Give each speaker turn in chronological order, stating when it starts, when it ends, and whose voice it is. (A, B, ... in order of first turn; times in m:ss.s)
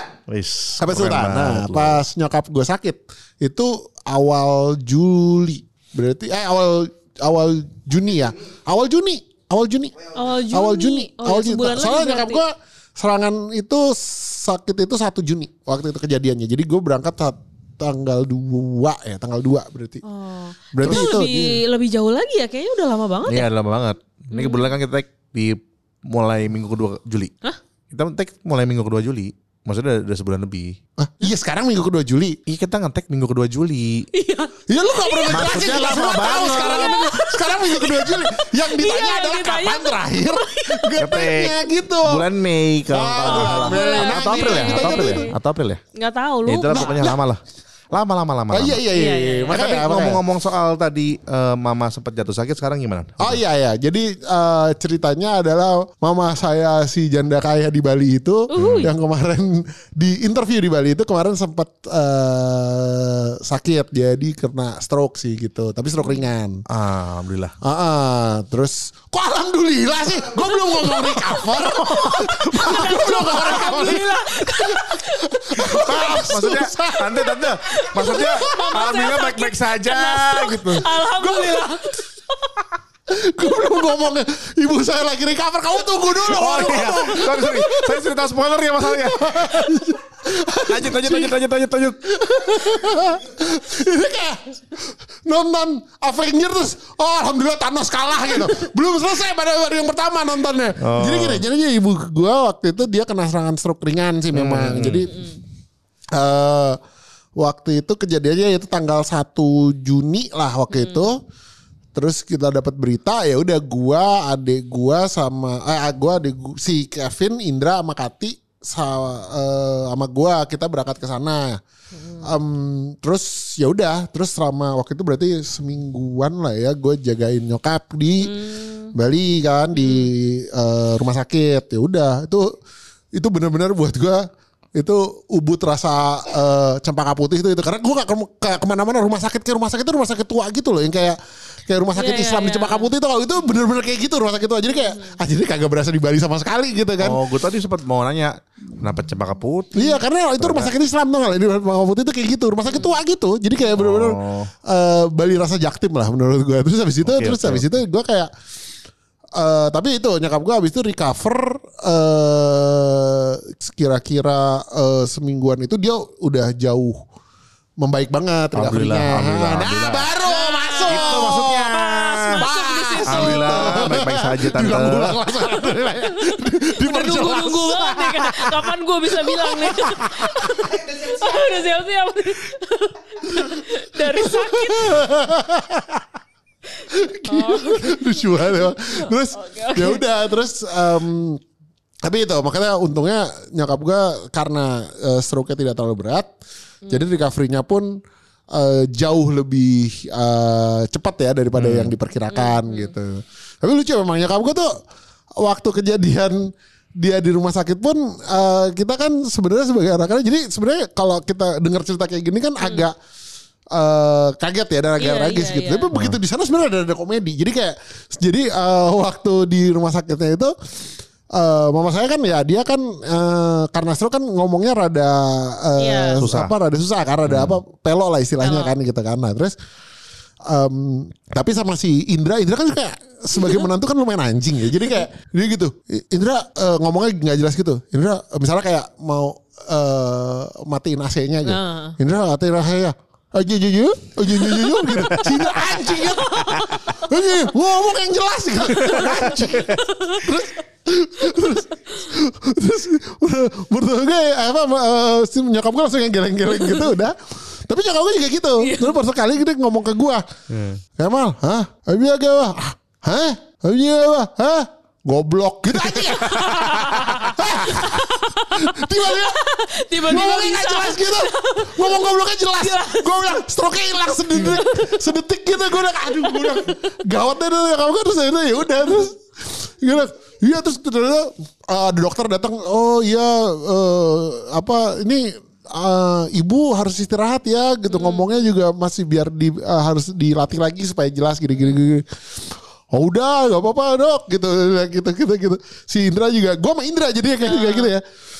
0:00.3-0:02.0 A
0:00.8-0:10.0 B
0:10.1-0:12.4 C
0:10.5-0:20.0 B
0:20.0-0:23.5 C
0:20.7-0:21.6 B
0:20.8-0:21.1 A
0:23.2-0:27.3 A
0:24.3-0:24.7 C
0:27.9-0:30.8 A
0:31.0-0:32.4 B
0:32.4-0:34.1 A
0:34.1-0:41.0 C
0:34.7-0:42.3 B
0:35.3-0:37.0 A
0:41.0-0:45.8 A
0:42.9-0:45.3 B
0:43.2-0:45.3 C
0:46.0-0:47.0 C
0:46.4-0:47.4 A
0:46.7-0:47.2 B
0:47.9-0:48.8 A
0:48.5-0:50.2 B
0:48.9-0:49.7 C
0:49.5-0:53.4 A
0:53.2-1:06.6 B
0:58.5-0:58.9 C
0:58.5-0:58.9 A
1:06.7-1:07.5 A
1:07.6-1:17.4 B
1:10.4-1:16.3 C
1:15.6-1:21.6 A
1:17.3-1:22.5 C
1:18.0-1:18.7 B
1:23.1-1:28.1 B
1:26.3-1:29.8 A
1:28.8-1:31.3 B
1:30.6-1:33.1 A
1:32.1-1:45.2 B
1:40.8-1:41.4 A
1:44.3-1:45.1 A
1:45.1-1:45.4 C
1:46.2-1:46.8 B
1:47.4-1:51.2 B
1:50.7-1:51.0 C
1:51.9-2:01.6 B
2:01.9-2:02.3 C
2:02.2-2:08.3 B
2:08.2-2:08.9 C
2:08.9-2:12.5 B
2:09.7-2:10.1 C
2:13.1-2:27.2 B
2:22.0-2:22.9 C
2:24.7-2:25.2 C
2:27.0-2:30.7 A
2:29.7-2:38.3 B
2:32.7-2:32.9 C
2:33.7-2:34.5 A
2:37.0-2:37.6 A
2:39.4-2:47.0 B
2:47.8-2:51.8 B
2:48.5-2:50.1 A
2:50.2-2:53.9 C
2:50.9-2:52.4 A
2:52.3-3:01.2 B
2:53.1-2:55.2 A
2:56.3-3:05.1 C
3:03.2-3:06.0 B
3:06.8-3:10.0 C
3:06.9-3:11.4 B
3:12.0-3:16.3 B
3:16.9-3:17.9 B
3:18.5-3:24.7 B
3:21.6-3:21.9 A
3:22.3-3:22.9 C
3:25.4-3:32.9 B
3:32.6-3:32.8 C
3:33.7-3:40.5 B
3:35.0-3:35.9 C
3:41.3-3:49.6 B
3:45.8-3:46.2 C
3:46.2-3:46.5 A
3:47.2-3:47.6 A
3:48.4-3:48.7 C
3:50.4-4:20.2 B
3:53.4-3:53.6 C
4:01.4-4:02.0 C
4:04.5-4:05.5 A
4:05.9-4:06.6 C
4:06.6-4:06.8 A
4:08.8-4:09.8 A
4:08.9-4:09.2 C
4:09.8-4:10.4 C
4:18.6-4:18.9 C
4:20.5-4:20.8 A
4:21.0-4:29.4 B
4:25.8-4:33.4 C
4:29.9-4:58.0 B
4:34.1-4:35.1 C
4:35.8-4:36.9 C
4:47.9-4:48.3 C
4:57.4-4:57.9 C